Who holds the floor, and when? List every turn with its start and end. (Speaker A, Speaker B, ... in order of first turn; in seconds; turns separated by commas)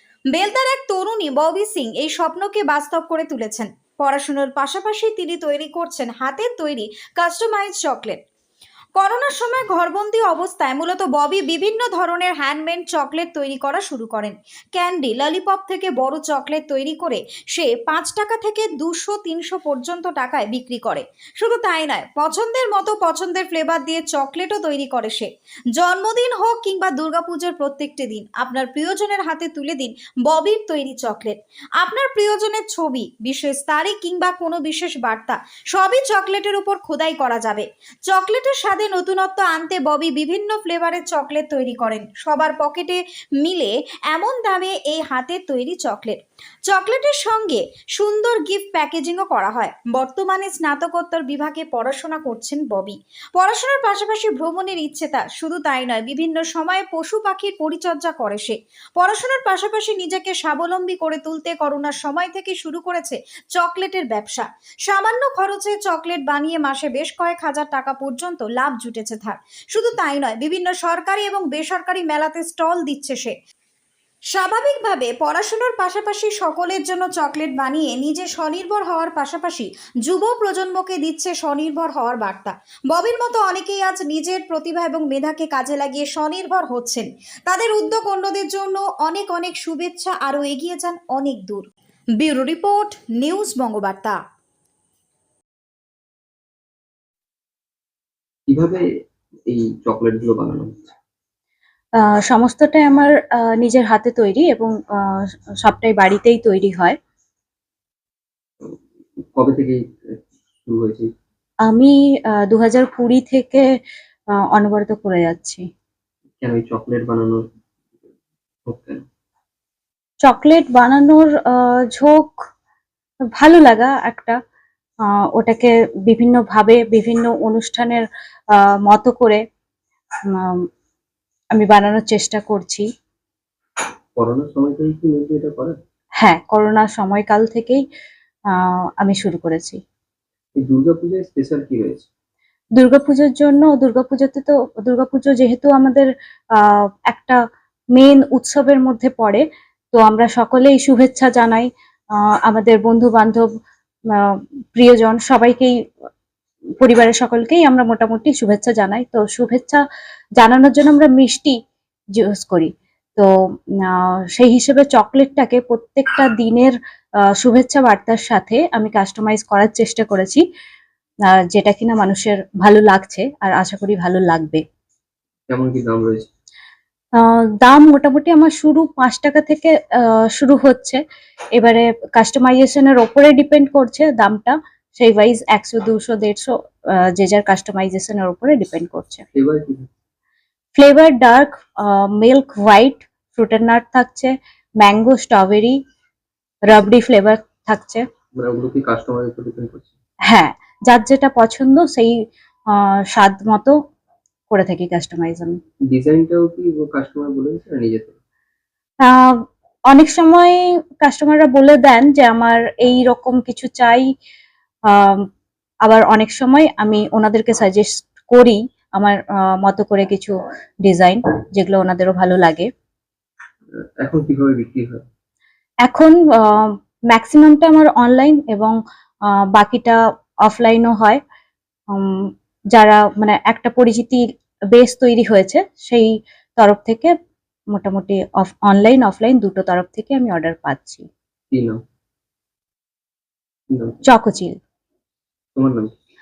Speaker A: 0.3-8.2, Speaker A: 9.0-73.3, Speaker A: 74.3-91.7, Speaker A: 92.2-94.2, Speaker B: 98.5-98.8, Speaker B: 99.5-100.9, Speaker C: 102.3-107.0, Speaker B: 109.4-109.8, Speaker B: 110.6-111.1, Speaker C: 111.7-111.9, Speaker C: 112.5-113.7, Speaker C: 114.5-115.6, Speaker B: 116.4-117.4, Speaker B: 118.7-119.0, Speaker C: 120.2-122.3, Speaker C: 123.4-124.4, Speaker C: 125.4-128.1, Speaker C: 128.8-129.4, Speaker C: 131.6-132.8, Speaker B: 134.2-135.8, Speaker C: 136.2-137.8, Speaker C: 138.5-139.8, Speaker B: 140.6-142.1, Speaker C: 142.8-147.4, Speaker C: 148.0-149.4, Speaker C: 149.9-151.7, Speaker C: 152.4-153.5, Speaker C: 154.1-155.8, Speaker C: 156.8-159.8, Speaker C: 160.4-161.6, Speaker C: 162.2-163.3, Speaker C: 163.9-166.7, Speaker C: 167.4-170.4, Speaker C: 171.5-174.6, Speaker B: 175.5-176.3, Speaker C: 177.6-181.0, Speaker C: 181.6-186.5, Speaker C: 187.1-189.2, Speaker B: 189.3-189.9, Speaker C: 190.8-195.8, Speaker C: 196.7-198.0, Speaker B: 198.4-199.9, Speaker C: 200.3-202.1, Speaker C: 202.7-203.8, Speaker C: 204.5-205.6, Speaker B: 205.9-208.2, Speaker C: 209.1-209.4, Speaker C: 209.9-214.1, Speaker C: 214.9-215.2, Speaker C: 215.8-220.3, Speaker C: 220.8-222.7, Speaker B: 224.0-225.1, Speaker C: 225.9-228.8, Speaker C: 229.5-231.2, Speaker C: 231.9-234.2, Speaker C: 234.7-237.1, Speaker C: 237.7-241.1, Speaker B: 241.5-241.8, Speaker C: 244.1-244.6, Speaker B: 245.6-245.9